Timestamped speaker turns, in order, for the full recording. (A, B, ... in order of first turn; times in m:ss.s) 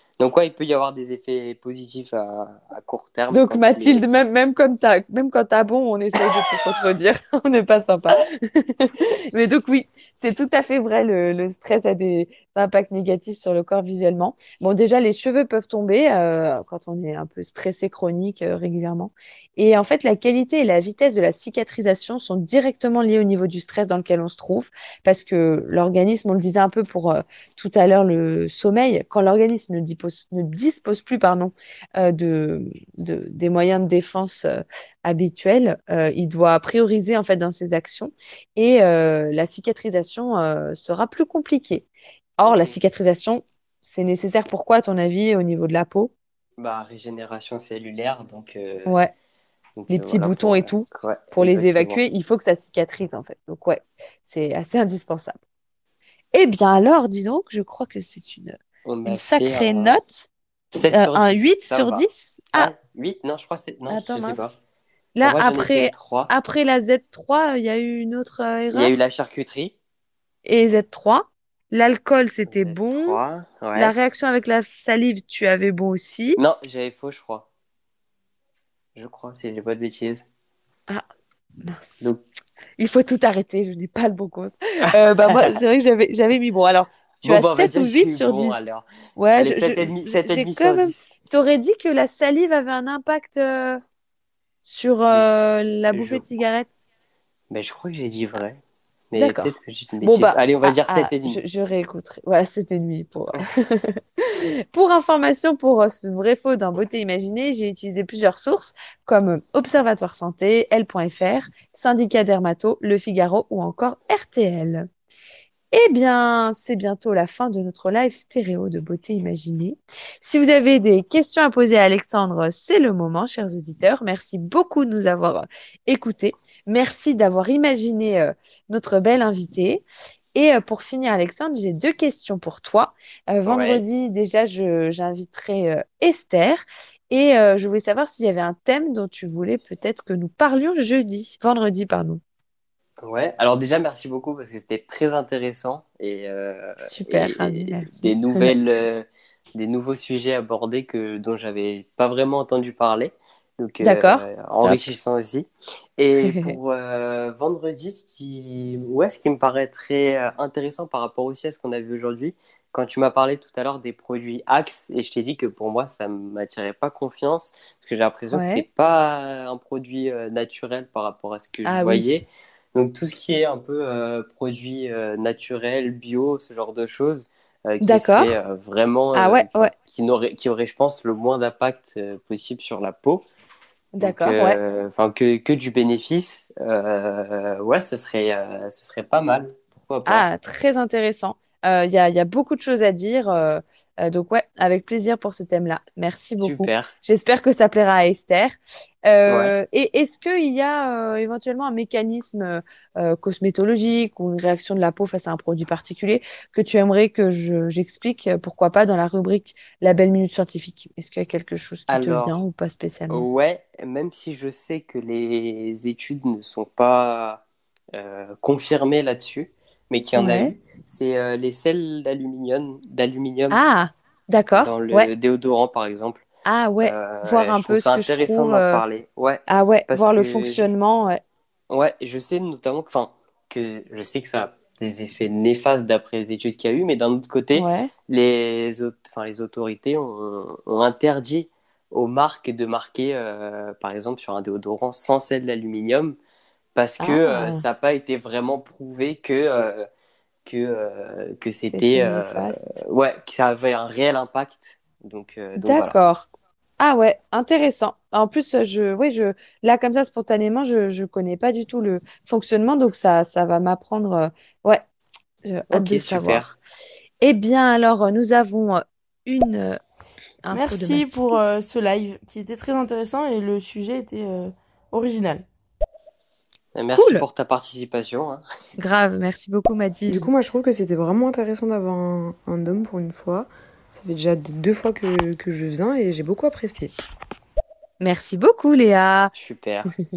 0:00.2-0:04.0 A
0:03.3-0:41.9 B
0:42.4-0:46.1 B
0:42.4-0:42.8 A
0:46.6-0:49.0 A
0:48.9-0:49.1 B
0:49.8-0:52.0 A
0:49.9-0:55.4 B
0:56.3-1:00.3 B
0:58.8-1:00.0 A
1:00.7-1:04.6 A
1:00.9-1:02.7 B
1:03.9-1:04.6 B
1:05.2-1:08.9 B
1:05.2-1:06.3 A
1:08.7-1:09.8 A
1:10.4-1:13.2 B
1:12.5-1:14.0 A
1:13.8-1:16.4 B
1:16.4-1:17.5 A
1:19.0-1:20.3 A
1:21.6-1:22.1 B
1:22.8-1:33.8 B
1:24.9-1:25.6 A
1:27.2-1:31.1 A
1:34.6-1:36.9 B
1:35.9-1:36.2 A
1:37.5-1:41.4 A
1:39.2-1:44.0 B
1:44.7-1:54.9 B
1:55.7-2:09.8 B
2:10.4-2:22.2 B
2:13.5-2:13.8 A
2:23.0-3:03.3 A
2:26.8-2:28.6 B
2:33.8-2:35.0 B
2:36.2-2:36.6 B
2:48.3-2:48.6 B
2:51.6-2:52.2 B
2:57.8-2:58.4 B
2:59.2-2:59.7 B
3:04.0-3:04.6 B
3:04.0-3:10.3 A
3:10.1-3:33.3 B
3:16.4-3:16.9 A
3:19.3-3:19.5 A
3:31.9-3:32.4 A
3:33.1-3:37.4 A
3:38.0-3:43.6 A
3:40.2-3:40.6 B
3:43.5-3:45.1 B
3:44.6-3:46.3 A
3:46.5-3:48.8 B
3:46.8-3:50.7 A
3:49.5-3:51.2 B
3:51.7-4:06.2 A
3:57.6-3:57.9 B
4:06.8-4:09.9 A
4:07.0-4:07.6 B
4:10.4-4:16.0 A
4:11.7-4:12.8 B
4:15.6-4:16.3 B
4:16.8-4:24.8 B
4:25.4-4:26.6 B
4:25.7-4:26.5 A
4:27.2-4:29.8 B
4:30.4-4:31.4 B
4:30.5-4:35.5 C
4:36.8-4:38.4 A
4:37.0-4:37.2 B
4:38.8-4:40.3 B
4:40.1-4:46.9 D
4:48.0-4:49.3 B
4:49.3-4:49.9 A